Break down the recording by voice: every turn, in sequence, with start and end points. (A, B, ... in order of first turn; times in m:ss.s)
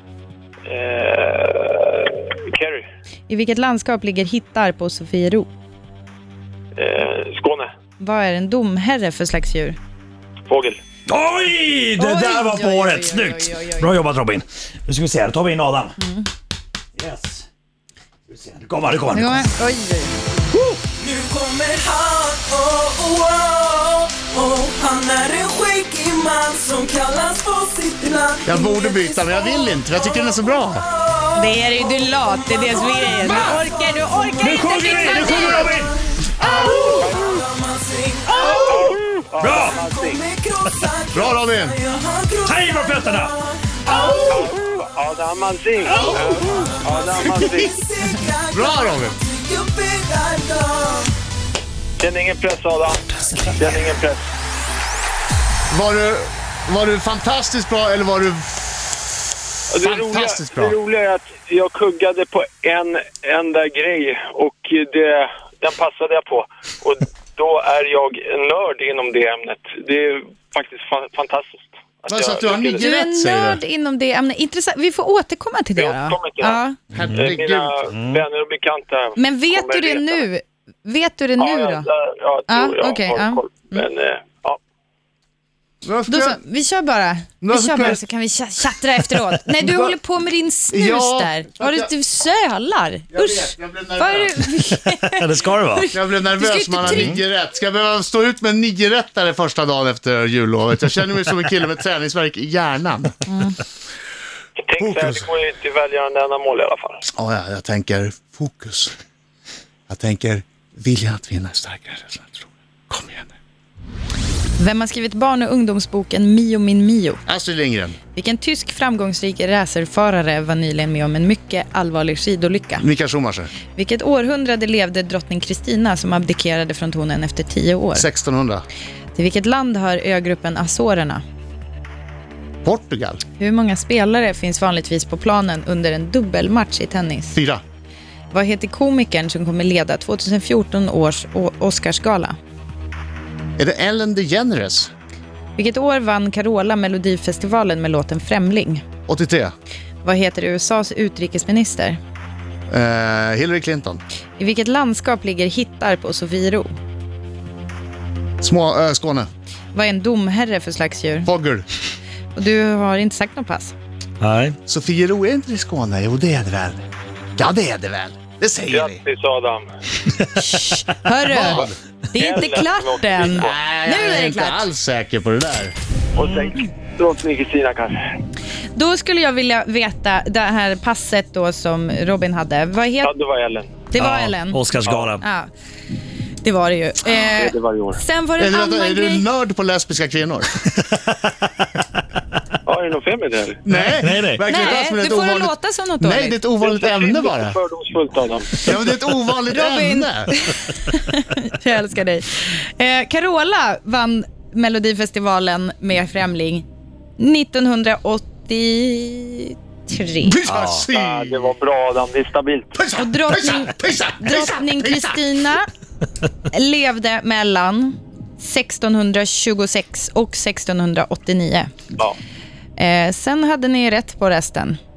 0:00.7-0:02.8 A
0:03.3-0:05.5 B
0:06.8-0:07.7 A
0:08.0-0:09.8 B
0:10.5-0:10.8 A
0:11.1-0:16.0 C
0:12.0-0:13.9 B
0:16.0-0:16.3 B
0:17.0-0:17.5 C
0:18.3-0:19.5 C
0:19.1-0:20.2 B
0:20.5-0:20.8 C
0:21.0-0:30.2 D
0:28.4-0:30.9 E
0:31.0-0:34.3 D
0:31.3-0:35.8 B
0:33.3-0:33.6 C
0:34.4-0:36.0 C
0:35.2-0:38.8 D
0:36.4-0:37.0 B
0:37.0-0:37.4 A
0:38.5-0:40.3 A
0:39.4-0:39.8 C
0:39.8-0:44.5 D
0:41.1-0:41.8 E
0:42.4-0:43.4 C
0:44.3-0:47.7 A
0:46.4-0:51.1 D
0:47.4-0:47.7 E
0:48.5-0:49.2 E
0:52.0-0:54.2 A
0:55.7-0:58.7 E
0:59.7-1:12.8 A
0:59.8-1:00.8 E
1:12.1-1:13.6 E
1:12.8-1:16.8 B
1:15.8-1:16.6 A
1:16.9-1:17.8 E
1:17.2-1:20.3 A
1:17.9-1:18.2 C
1:19.2-1:21.9 B
1:21.4-1:24.6 A
1:22.5-1:23.8 B
1:25.8-1:26.4 E
1:26.1-1:37.2 B
1:27.4-1:28.0 E
1:29.6-1:30.0 E
1:30.7-1:31.9 E
1:33.1-1:34.5 E
1:35.2-1:35.9 C
1:35.9-1:43.2 E
1:43.3-1:43.6 B
1:44.7-1:47.1 A
1:44.8-1:45.3 E
1:47.1-1:48.9 E
1:49.9-1:53.3 E
1:54.6-1:57.2 B
1:57.3-1:58.0 E
1:58.1-2:02.8 B
2:02.8-2:03.5 E
2:03.7-2:08.1 B
2:08.0-2:08.6 E
2:09.2-2:11.2 B
2:12.6-2:13.2 E
2:13.4-2:17.4 B
2:17.3-2:17.6 E
2:18.3-2:22.4 B
2:23.6-2:24.9 E
2:25.6-2:28.8 B
2:29.1-2:29.5 E
2:30.0-2:32.0 B
2:32.7-2:34.0 E
2:34.4-2:36.7 B
2:38.4-2:39.3 E
2:39.7-2:41.3 B
2:41.2-2:41.7 E
2:42.4-2:43.7 B
2:44.2-2:44.6 C
2:44.7-2:46.8 E
2:47.4-2:49.0 E
2:48.7-2:49.6 A
2:50.4-2:54.7 B
2:51.2-2:51.8 E
2:51.6-2:53.6 A
2:53.4-2:55.7 E
2:56.2-2:58.2 A
2:58.8-3:03.1 B
3:03.0-3:03.9 A
3:03.9-3:04.6 B
3:04.0-3:05.2 C
3:04.8-3:05.1 A
3:05.2-3:05.5 B
3:06.4-3:09.3 B
3:07.2-3:08.0 A
3:08.4-3:10.7 E
3:12.7-3:13.6 A
3:13.7-3:17.6 E
3:13.8-3:14.4 C
3:14.5-3:16.4 B
3:16.6-3:18.6 A
3:18.6-3:20.3 E
3:19.5-3:26.6 B
3:27.2-3:30.4 B
3:30.2-3:31.5 E
3:30.5-3:30.8 C
3:30.9-3:32.8 A
3:32.8-3:35.2 E
3:33.0-3:35.7 B
3:36.5-3:41.7 B
3:42.8-3:44.8 B